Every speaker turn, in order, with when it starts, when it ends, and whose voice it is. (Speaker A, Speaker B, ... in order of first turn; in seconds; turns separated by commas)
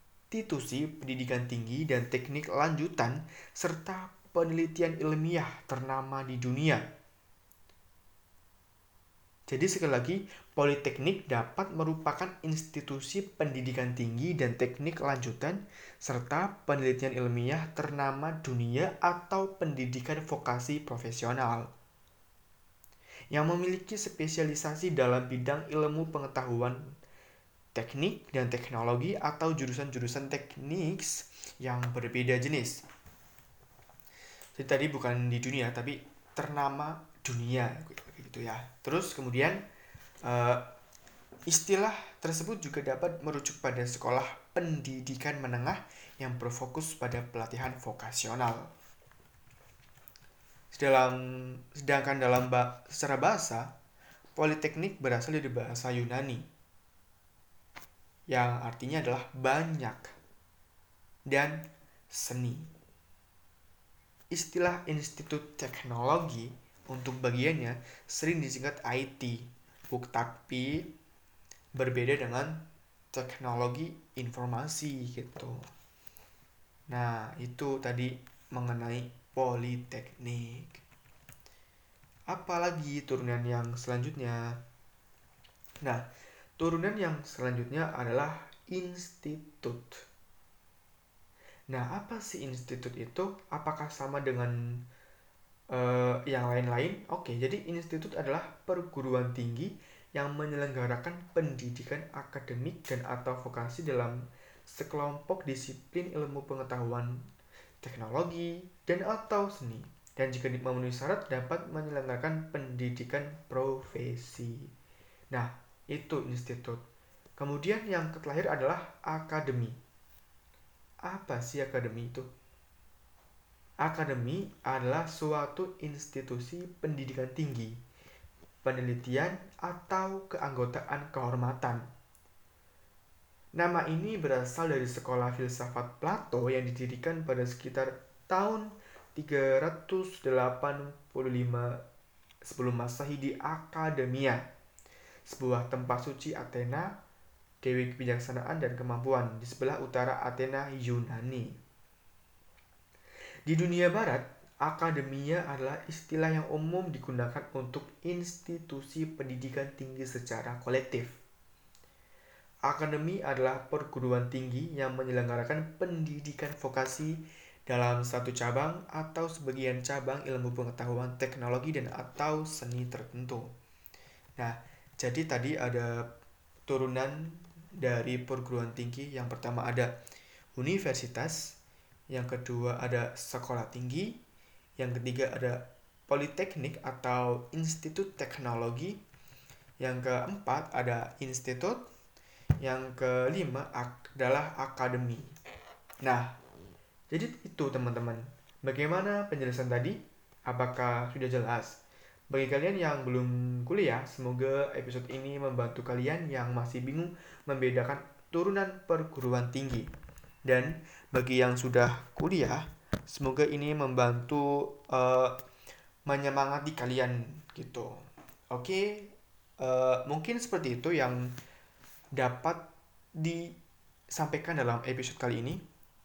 Speaker A: 0.3-6.9, Speaker A: 9.5-21.7, Speaker A: 23.3-26.9, Speaker A: 27.7-32.8, Speaker A: 34.6-39.6, Speaker A: 40.2-40.6, Speaker A: 41.5-48.7, Speaker A: 50.7-53.7, Speaker A: 54.3-56.5, Speaker A: 58.3-60.1, Speaker A: 61.3-62.7, Speaker A: 64.3-70.9, Speaker A: 71.8-75.7, Speaker A: 76.9-80.8, Speaker A: 82.3-84.5, Speaker A: 86.6-89.9, Speaker A: 91.7-94.5, Speaker A: 95.7-107.2, Speaker A: 107.8-114.7, Speaker A: 115.3-116.8, Speaker A: 117.4-119.8, Speaker A: 121.0-122.3, Speaker A: 123.8-127.8, Speaker A: 128.6-131.9, Speaker A: 133.5-141.8, Speaker A: 142.5-144.4, Speaker A: 145.3-146.9, Speaker A: 147.6-151.6, Speaker A: 153.5-161.2, Speaker A: 162.7-173.5, Speaker A: 174.4-176.1, Speaker A: 176.7-179.9, Speaker A: 180.6-181.6, Speaker A: 182.1-184.2, Speaker A: 184.8-189.0, Speaker A: 189.8-191.8, Speaker A: 192.6-195.3, Speaker A: 196.0-196.4, Speaker A: 197.1-209.9, Speaker A: 210.4-215.3, Speaker A: 216.1-217.9, Speaker A: 218.5-221.3, Speaker A: 222.2-222.7, Speaker A: 223.2-223.5, Speaker A: 224.1-225.6